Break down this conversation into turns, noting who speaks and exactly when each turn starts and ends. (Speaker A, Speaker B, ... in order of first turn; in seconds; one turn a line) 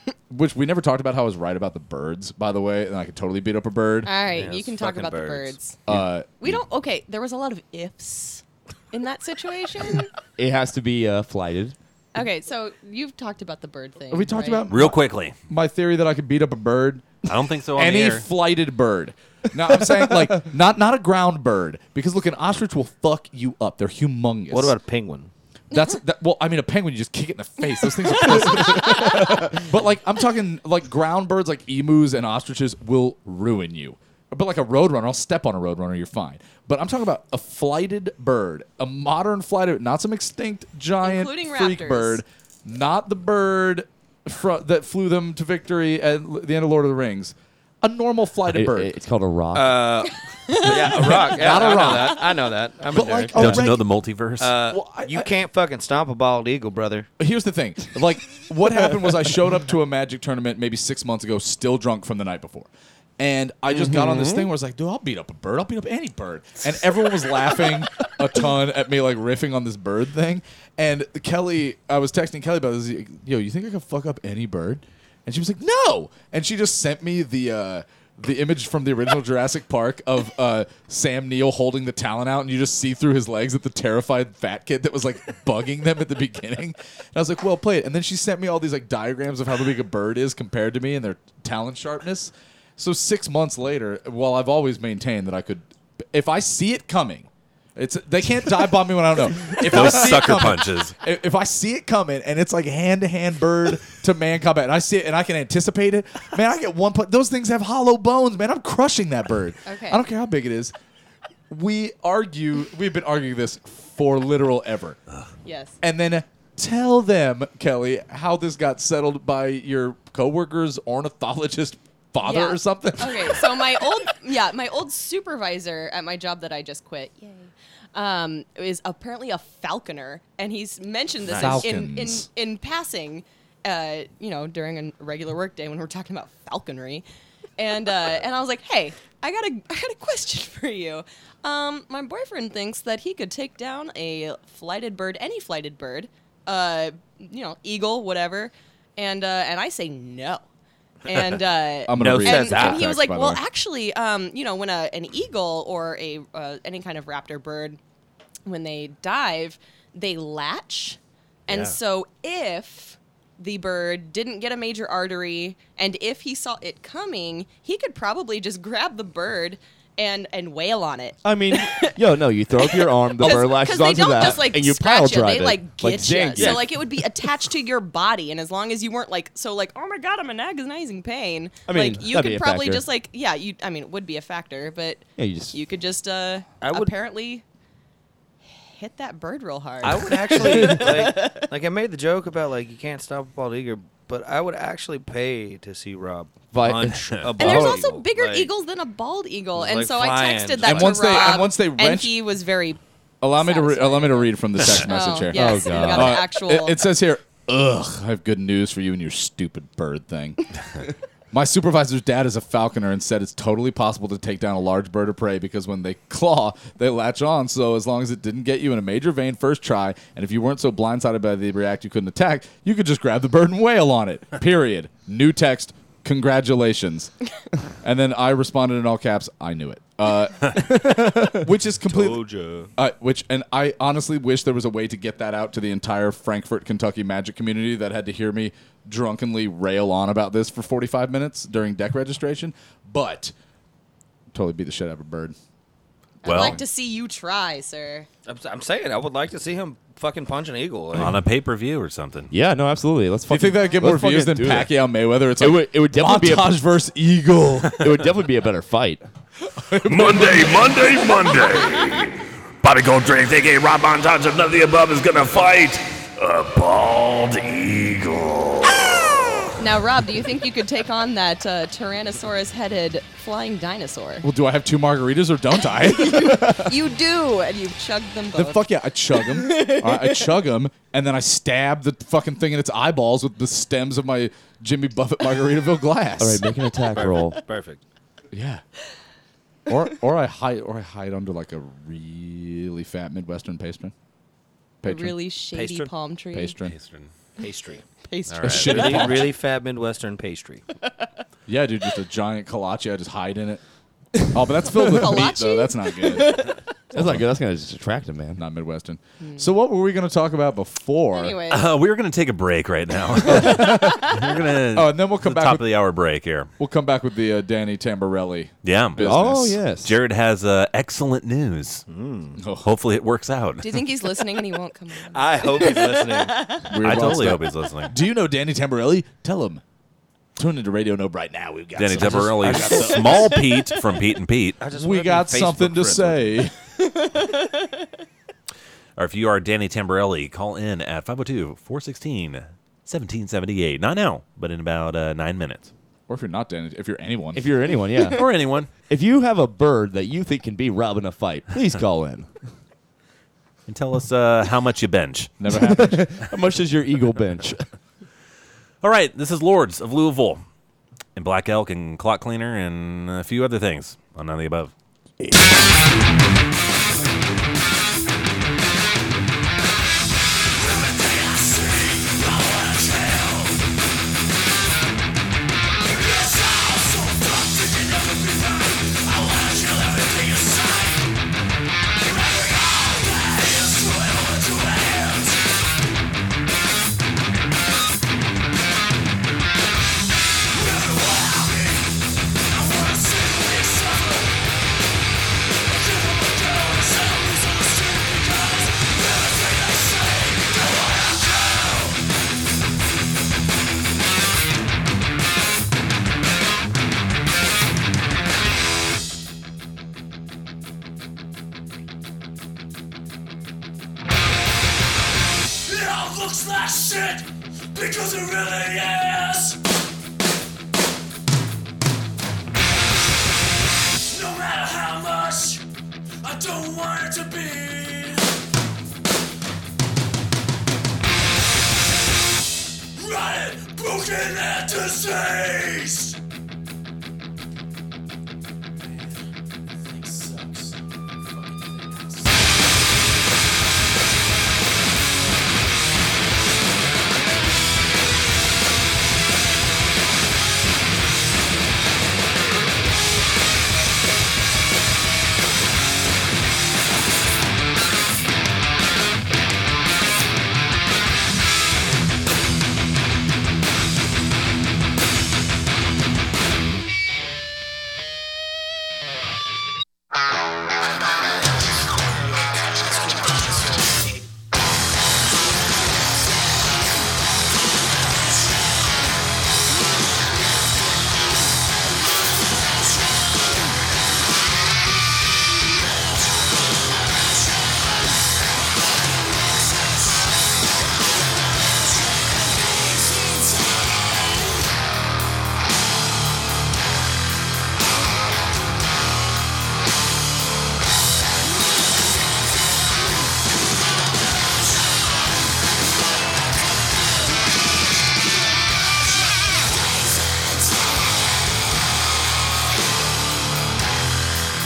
Speaker A: 0.3-4.1
Speaker B: 4.0-5.8
Speaker C: 4.3-5.6
Speaker A: 5.9-6.6
Speaker B: 6.4-10.1
Speaker D: 10.4-11.8
Speaker B: 12.1-14.6
Speaker A: 14.1-17.2
Speaker E: 14.7-15.3
Speaker E: 17.2-18.2
Speaker A: 17.7-24.8
Speaker D: 20.0-20.2
Speaker C: 24.5-25.3
Speaker A: 25.7-48.9
Speaker B: 28.2-29.4
Speaker B: 41.0-42.2
Speaker D: 48.5-49.9
Speaker C: 49.5-53.5
Speaker B: 50.5-51.0
Speaker A: 50.7-52.3
Speaker A: 52.9-53.9
Speaker E: 53.3-54.5
Speaker C: 54.4-57.1
Speaker A: 54.7-55.3
Speaker A: 57.2-62.7
Speaker A: 63.2-110.7
Speaker D: 63.7-64.5
Speaker E: 99.5-100.9
Speaker B: 109.6-110.0
Speaker A: 111.5-115.0
Speaker B: 115.4-115.8
Speaker A: 115.8-123.5
Speaker B: 122.2-137.0
Speaker C: 131.2-131.7
Speaker A: 131.3-132.3
Speaker B: 137.6-150.4
Speaker B: 151.1-157.8
Speaker A: 151.9-153.4
Speaker C: 151.9-152.9
Speaker B: 158.4-171.9
Speaker D: 171.2-177.3
Speaker B: 172.6-187.4
Speaker D: 181.7-182.8
Speaker D: 185.2-185.6
Speaker C: 186.6-186.9
Speaker B: 188.4-191.5
Speaker C: 189.8-198.5
Speaker D: 190.3-190.8
Speaker D: 196.5-197.8
Speaker B: 197.3-202.8
Speaker C: 199.5-201.3
Speaker A: 200.6-202.2
Speaker A: 203.2-210.4
Speaker B: 203.3-206.8
Speaker D: 205.3-206.2
Speaker A: 211.3-227.1
Speaker A: 227.8-243.3
Speaker C: 231.8-232.7
Speaker A: 244.3-245.3
Speaker B: 246.2-248.1
Speaker E: 246.2-246.6
Speaker A: 246.2-246.6
Speaker C: 248.2-251.2
Speaker E: 250.9-252.3
Speaker D: 252.3-254.8
Speaker A: 253.3-257.9
Speaker D: 255.4-256.6
Speaker D: 257.7-259.0
Speaker A: 259.5-261.0
Speaker F: 259.9-262.1
Speaker F: 262.6-268.5
Speaker B: 269.6-274.3
Speaker A: 274.2-276.7
Speaker B: 275.7-278.6
Speaker A: 278.3-286.5
Speaker B: 279.2-280.2
Speaker D: 286.2-287.4
Speaker C: 286.9-287.8
Speaker A: 288.3-288.6
Speaker A: 289.7-293.9
Speaker A: 294.8-295.2
Speaker B: 294.8-296.6
Speaker C: 295.5-295.9
Speaker A: 296.3-296.8
Speaker E: 296.7-297.1
Speaker C: 297.4-297.9
Speaker B: 298.1-299.2
Speaker E: 298.3-299.0
Speaker A: 298.4-299.3
Speaker C: 298.6-300.6
Speaker A: 301.5-303.6
Speaker A: 304.3-307.2
Speaker B: 304.6-306.4
Speaker D: 306.9-308.4
Speaker A: 308.4-311.4
Speaker B: 309.2-309.4
Speaker B: 311.1-311.7
Speaker E: 311.5-316.5
Speaker A: 313.2-314.2
Speaker B: 313.3-314.1
Speaker A: 314.7-315.7
Speaker A: 316.6-319.6
Speaker E: 318.6-321.8
Speaker D: 319.0-319.9
Speaker C: 321.9-322.4
Speaker A: 322.4-322.7
Speaker E: 322.6-323.8
Speaker B: 323.6-326.6
Speaker C: 325.1-326.5
Speaker A: 326.6-329.6
Speaker E: 326.8-327.9
Speaker A: 330.4-333.4
Speaker E: 331.8-334.6
Speaker C: 332.4-333.0
Speaker C: 334.6-336.4
Speaker A: 334.7-336.5
Speaker E: 339.0-345.7
Speaker A: 346.1-347.5
Speaker D: 347.3-348.2
Speaker E: 348.1-348.7
Speaker D: 348.9-352.3
Speaker E: 353.7-355.3
Speaker A: 355.4-356.1
Speaker D: 355.5-357.6
Speaker E: 358.8-360.4
Speaker E: 361.1-364.7
Speaker F: 370.5-373.6
Speaker F: 375.8-381.1
Speaker F: 381.9-385.6
Speaker F: 390.5-391.9
Speaker F: 392.5-394.4
Speaker F: 395.7-402.0
Speaker F: 415.6-419.6
Speaker F: 424.1-425.6
Speaker F: 426.2-428.3
Speaker F: 432.9-436.2
Speaker F: 440.0-440.7
Speaker F: 482.8-483.6
Speaker F: 489.5-489.9
Speaker F: 492.1-494.4
Speaker F: 508.5-510.6